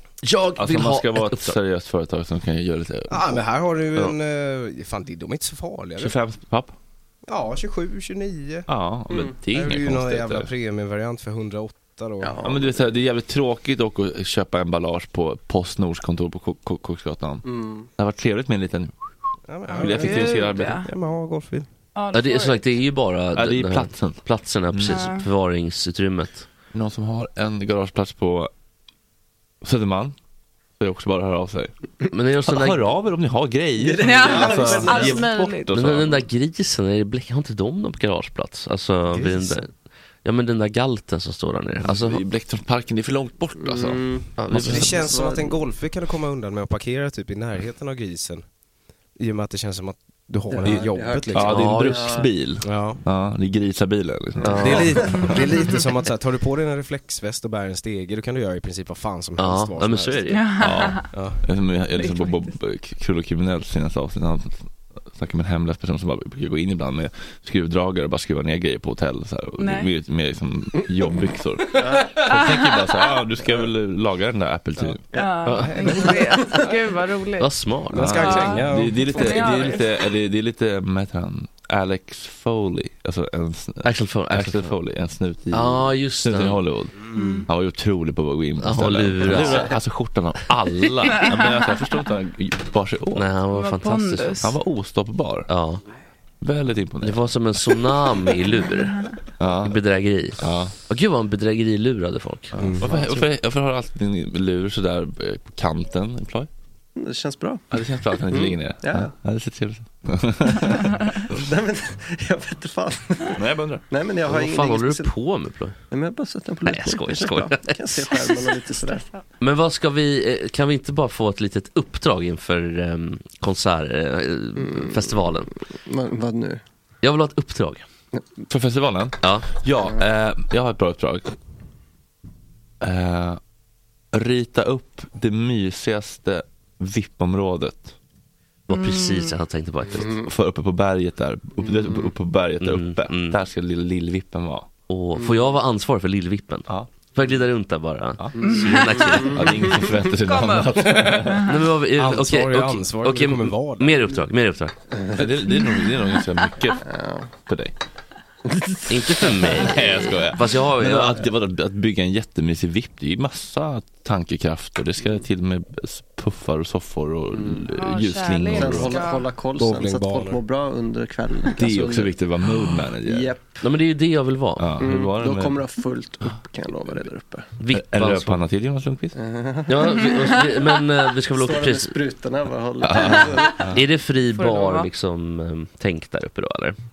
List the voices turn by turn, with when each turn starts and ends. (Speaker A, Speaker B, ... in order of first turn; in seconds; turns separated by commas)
Speaker A: 0.2-1.6, Speaker B: 0.6-3.4, Speaker C: 3.1-6.2, Speaker B: 6.0-6.7, Speaker C: 7.3-8.7, Speaker B: 8.7-10.5, Speaker C: 9.5-12.4, Speaker D: 12.2-12.7, Speaker B: 12.4-17.4, Speaker D: 17.4-17.9, Speaker B: 18.0-18.9, Speaker C: 19.5-21.7, Speaker E: 19.7-20.9, Speaker B: 19.8-20.8, Speaker E: 22.0-22.6, Speaker A: 22.1-26.5, Speaker B: 23.3-24.2, Speaker B: 24.7-25.0, Speaker E: 24.9-25.3, Speaker B: 26.7-28.5, Speaker B: 29.6-30.1, Speaker B: 30.8-31.7, Speaker A: 32.1-32.8, Speaker B: 32.5-36.2, Speaker D: 33.8-35.2, Speaker E: 34.0-35.7, Speaker A: 35.7-39.7, Speaker C: 39.1-39.6, Speaker A: 40.2-42.2, Speaker B: 41.9-45.0, Speaker D: 43.6-44.4, Speaker A: 44.4-45.0, Speaker C: 44.5-48.4, Speaker D: 44.9-45.5, Speaker C: 49.2-51.6, Speaker D: 50.5-52.3, Speaker B: 50.6-55.1, Speaker A: 51.4-52.2, Speaker C: 52.6-53.0, Speaker C: 54.4-60.5, Speaker A: 54.4-55.2, Speaker E: 55.1-55.8, Speaker A: 59.4-60.9, Speaker E: 60.3-61.1, Speaker B: 60.6-75.0, Speaker C: 61.1-61.4, Speaker E: 61.9-62.5, Speaker E: 69.6-69.9, Speaker D: 71.8-72.1, Speaker E: 75.1-77.5, Speaker A: 75.5-76.0, Speaker C: 75.5-76.2, Speaker A: 77.4-78.5, Speaker C: 77.9-79.6, Speaker B: 78.0-93.3, Speaker E: 78.0-79.9, Speaker A: 83.8-84.7, Speaker A: 85.5-86.6, Speaker E: 87.1-87.5, Speaker A: 88.6-89.7, Speaker E: 91.1-91.6, Speaker A: 93.2-94.4, Speaker E: 93.5-94.6, Speaker B: 94.4-95.5, Speaker A: 95.5-95.8, Speaker B: 96.4-97.2, Speaker A: 97.0-99.0, Speaker E: 98.8-99.1, Speaker B: 99.4-99.8, Speaker A: 99.6-102.6, Speaker B: 100.4-100.7, Speaker C: 102.6-103.0, Speaker B: 102.8-106.5, Speaker D: 107.0-107.6, Speaker B: 107.7-111.0, Speaker D: 108.3-109.1, Speaker D: 111.3-113.4, Speaker B: 113.4-113.9, Speaker D: 113.9-115.1, Speaker A: 114.3-115.8, Speaker D: 115.9-119.1, Speaker A: 116.7-117.8, Speaker E: 118.8-119.0, Speaker A: 119.4-125.5, Speaker D: 124.6-126.6, Speaker A: 127.0-127.8, Speaker B: 128.5-131.3, Speaker A: 129.2-129.5, Speaker B: 132.8-133.4, Speaker B: 134.1-137.9, Speaker A: 138.7-140.2, Speaker E: 138.7-139.3, Speaker B: 140.2-144.7, Speaker D: 141.6-142.0, Speaker A: 142.6-143.4, Speaker A: 144.9-149.6, Speaker D: 145.2-145.5, Speaker E: 148.4-149.3, Speaker D: 148.4-149.8, Speaker B: 149.3-151.5, Speaker E: 150.2-151.6, Speaker A: 151.3-154.8, Speaker C: 151.9-154.0, Speaker B: 155.1-156.9, Speaker E: 155.5-156.1, Speaker D: 156.9-157.3, Speaker B: 157.4-157.7, Speaker A: 158.9-161.2, Speaker B: 159.5-169.1, Speaker D: 167.3-167.6, Speaker E: 167.7-169.3, Speaker D: 168.6-172.1, Speaker C: 169.6-170.4, Speaker B: 171.6-173.4, Speaker D: 173.0-173.7, Speaker A: 173.6-174.7, Speaker B: 174.6-175.6, Speaker D: 174.8-177.5, Speaker A: 177.6-178.4, Speaker B: 177.7-179.2, Speaker D: 179.1-179.9, Speaker A: 179.7-182.0, Speaker E: 179.9-180.3, Speaker D: 181.3-183.6, Speaker B: 182.8-183.8, Speaker A: 183.7-186.8, Speaker E: 184.3-184.9